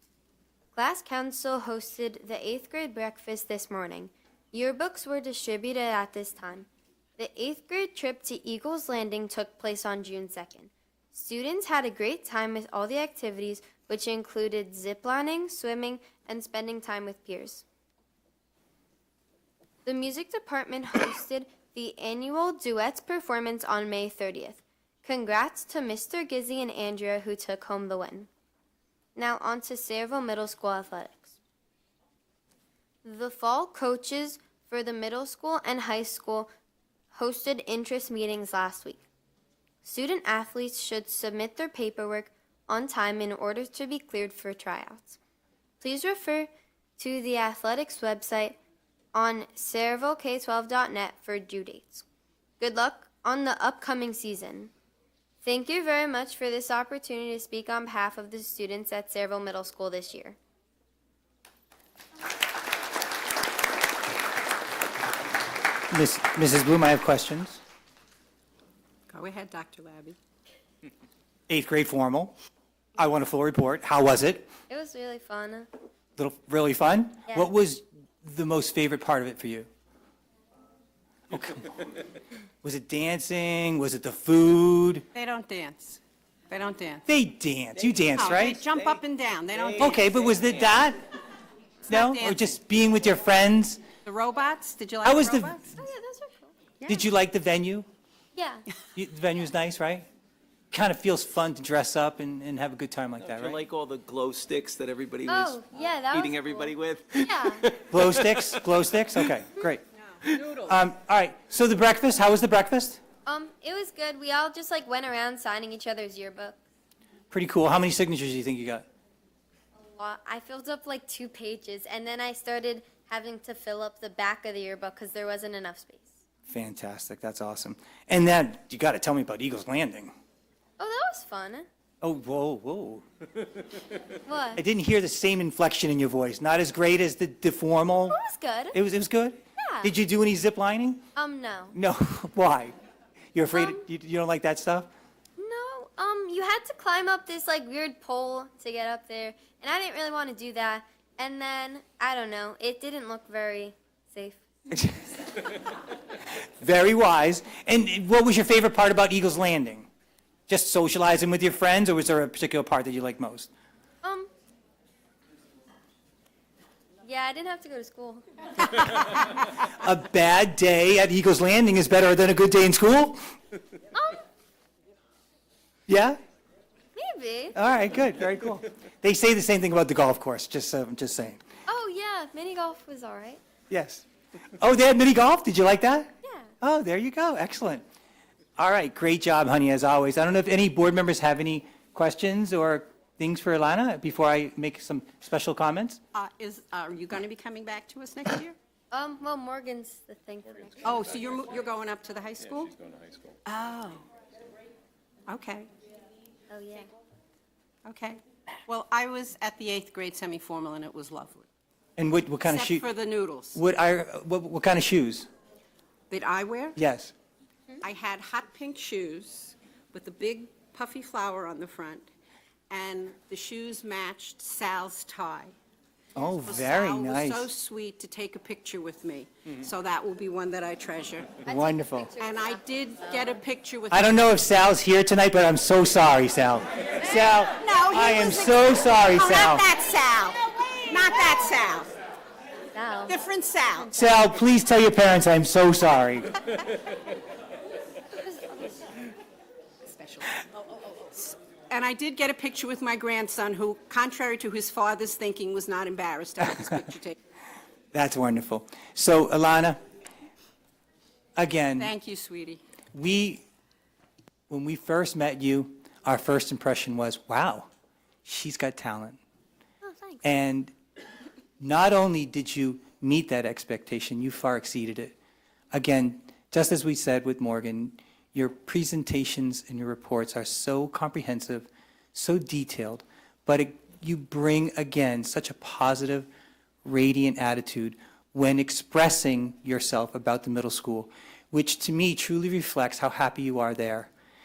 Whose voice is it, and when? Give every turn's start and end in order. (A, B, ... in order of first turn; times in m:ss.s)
0:00.7-0:17.6 A
0:19.8-0:28.3 A
0:29.2-0:31.4 A
0:33.0-0:36.5 A
0:37.1-0:39.0 A
0:39.8-0:45.2 A
0:45.8-0:48.6 A
0:49.1-0:52.0 A
0:52.6-0:54.7 A
0:55.4-1:00.4 A
1:05.9-1:07.6 B
1:09.1-1:10.2 C
1:11.5-1:12.3 B
1:13.0-1:14.5 B
1:14.7-1:15.7 A
1:16.2-1:19.7 B
1:21.3-1:21.7 B
1:22.6-1:25.0 B
1:25.1-1:27.0 C
1:27.1-1:28.6 B
1:28.1-1:30.2 C
1:29.8-1:31.0 B
1:31.9-1:33.8 B
1:31.9-1:32.6 C
1:34.0-1:35.8 C
1:35.0-1:35.6 B
1:35.7-1:36.5 A
1:36.8-1:37.9 B
1:38.3-1:38.7 A
1:38.9-1:40.0 B
1:40.7-1:43.6 B
1:43.3-1:48.5 D
1:45.3-1:47.6 A
1:47.9-1:49.8 B
1:50.5-1:53.0 B
1:53.2-1:56.6 A
1:57.3-1:58.8 B
1:59.9-2:06.2 A
2:06.5-2:10.1 B
2:10.8-2:11.7 A
2:12.0-2:13.0 B
2:14.2-2:14.6 A
2:14.6-2:18.2 B
2:18.0-2:18.8 A
2:18.7-2:21.0 B
2:19.6-2:19.9 A
2:21.2-2:21.8 A
2:21.7-2:22.7 B
2:23.3-2:24.9 B
2:23.5-2:23.8 A
2:25.4-2:34.4 A
2:34.7-2:35.0 B
2:36.4-2:39.9 B
2:40.5-2:43.5 B
2:44.0-2:44.3 A
2:47.0-2:48.8 A
2:49.7-2:53.2 B
2:53.9-2:54.2 A
2:55.9-2:56.2 B
2:56.9-2:57.6 A
2:57.5-3:01.4 B
3:01.7-3:03.4 A
3:03.7-3:07.8 B
3:06.2-3:06.5 A
3:08.6-3:16.0 B
3:16.1-3:18.5 C
3:18.9-3:20.9 A
3:20.8-3:22.8 C
3:23.4-3:24.0 C
3:25.3-3:25.7 C
3:26.5-3:26.9 A
3:27.8-3:31.5 C
3:32.0-3:32.8 B
3:32.4-3:33.6 C
3:33.5-3:35.3 B
3:36.1-3:36.8 C
3:36.8-3:37.1 B
3:37.8-3:42.1 C
3:42.7-3:45.5 C
3:46.2-3:47.5 B
3:46.4-3:51.4 C
3:51.4-3:52.1 B
3:51.4-3:53.2 A
3:52.2-3:54.2 C
3:53.9-3:59.6 B
3:57.6-4:01.9 C
4:02.7-4:03.2 A
4:03.1-4:03.9 C
4:03.9-4:06.4 B
4:08.2-4:09.0 A
4:09.8-4:17.2 C
4:17.9-4:19.8 B
4:21.4-4:21.9 B
4:21.8-4:22.6 C
4:22.9-4:23.4 B
4:24.5-4:27.7 B
4:28.2-4:29.2 B
4:29.8-4:30.2 A
4:30.2-4:30.7 B
4:31.6-4:35.1 B
4:35.7-4:46.3 B
4:46.8-4:54.1 B